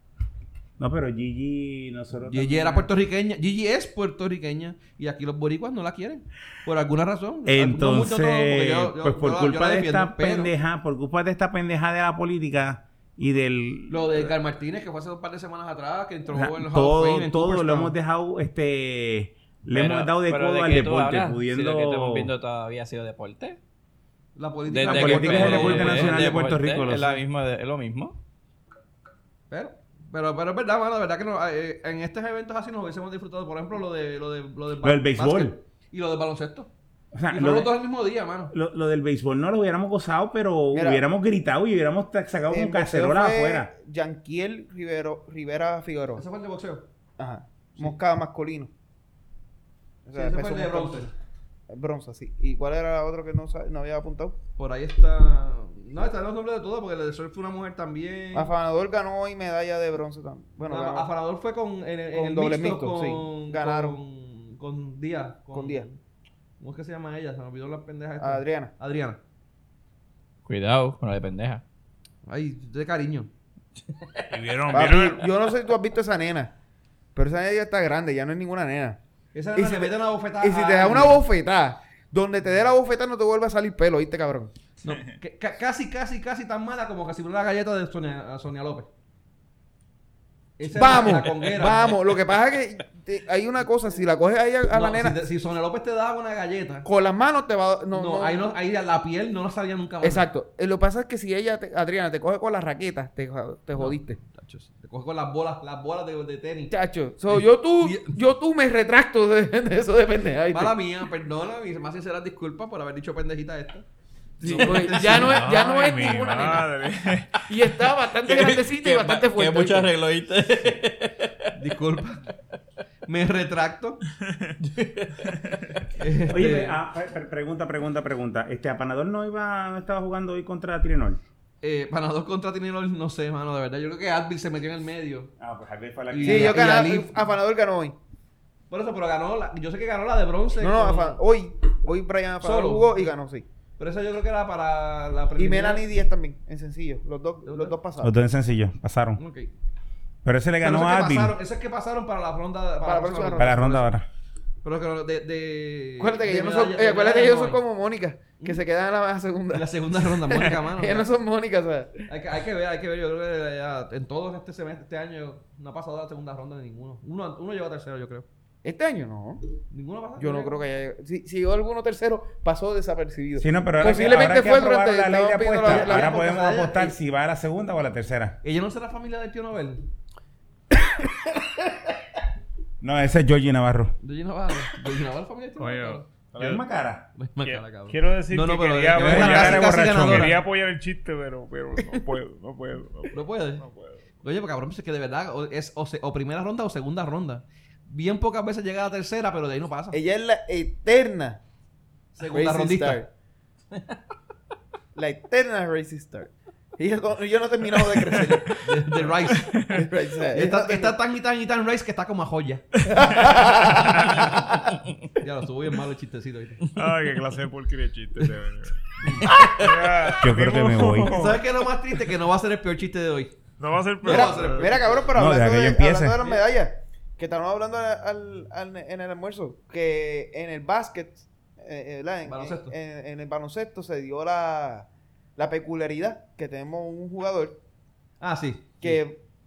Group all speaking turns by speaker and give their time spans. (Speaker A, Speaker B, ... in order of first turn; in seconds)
Speaker A: 0.8-2.9, 7.5-14.3, 16.3-22.3, 24.8-27.2, 34.8-35.6, 37.1-37.7, 38.5-43.7, 126.3-131.2, 135.4-136.8, 148.0-149.2, 150.2-151.3, 153.3-154.1, 173.4-178.4, 182.8-183.9, 186.3-187.0, 188.9-190.3, 220.2-221.2, 225.1-226.2
Speaker B: 2.3-10.5, 13.9-17.9, 24.4-26.3, 29.5-36.7, 37.3-38.5, 46.1-46.9, 50.1-51.1, 54.6-58.5, 60.6-66.0, 66.6-69.2, 72.2-73.3, 79.3-81.2, 84.8-88.9, 90.6-92.0, 94.7-96.9, 97.9-100.3, 103.8-106.7, 107.3-108.2, 110.5-113.8, 114.4-115.7, 121.5-122.2, 123.0-124.0, 126.0-126.8, 131.6-135.3, 136.1-137.2, 138.7-141.2, 142.4-143.0, 143.8-145.8, 147.4-147.8, 149.2-149.5, 150.6-153.9, 154.6-157.6, 159.5-161.1, 162.1-168.2, 169.7-170.6, 173.8-174.4, 175.6-177.0, 178.4-179.9, 184.0-186.0, 187.2-190.4, 193.1-193.6, 194.2-200.0, 202.1-203.0, 208.2-209.6, 210.3-214.3, 215.1-216.7, 219.0-219.6, 220.9-223.3, 224.0-225.2, 226.2-226.4, 232.2-232.7, 238.2-239.0
Speaker C: 19.7-23.6, 24.7-28.2, 70.5-71.6, 114.4-115.1, 118.1-121.5, 124.6-125.8
Speaker D: 40.7-41.0, 42.5-46.2, 47.2-48.7, 50.0-51.1, 51.7-54.4, 58.3-61.1, 62.1-64.0, 65.5-65.8, 68.2-68.7, 74.7-76.5, 77.1-79.0, 79.5-84.5, 90.6-95.2, 96.8-98.4, 100.0-104.2, 106.7-110.8, 114.4-116.7, 117.5-119.9, 136.2-137.9, 140.6-143.4, 145.4-148.1, 152.8-153.6, 156.0-162.0, 168.6-169.4, 170.2-176.2, 189.0-189.7, 199.9-201.4, 202.3-203.1, 204.9-208.7, 209.6-210.9, 212.9-214.7, 224.0-237.6, 238.8-239.2
Speaker E: 74.3-75.3, 115.1-117.6, 124.2-124.6, 185.6-186.6, 187.4-194.1, 209.3-209.9, 213.7-214.3, 216.7-221.4, 223.6-224.8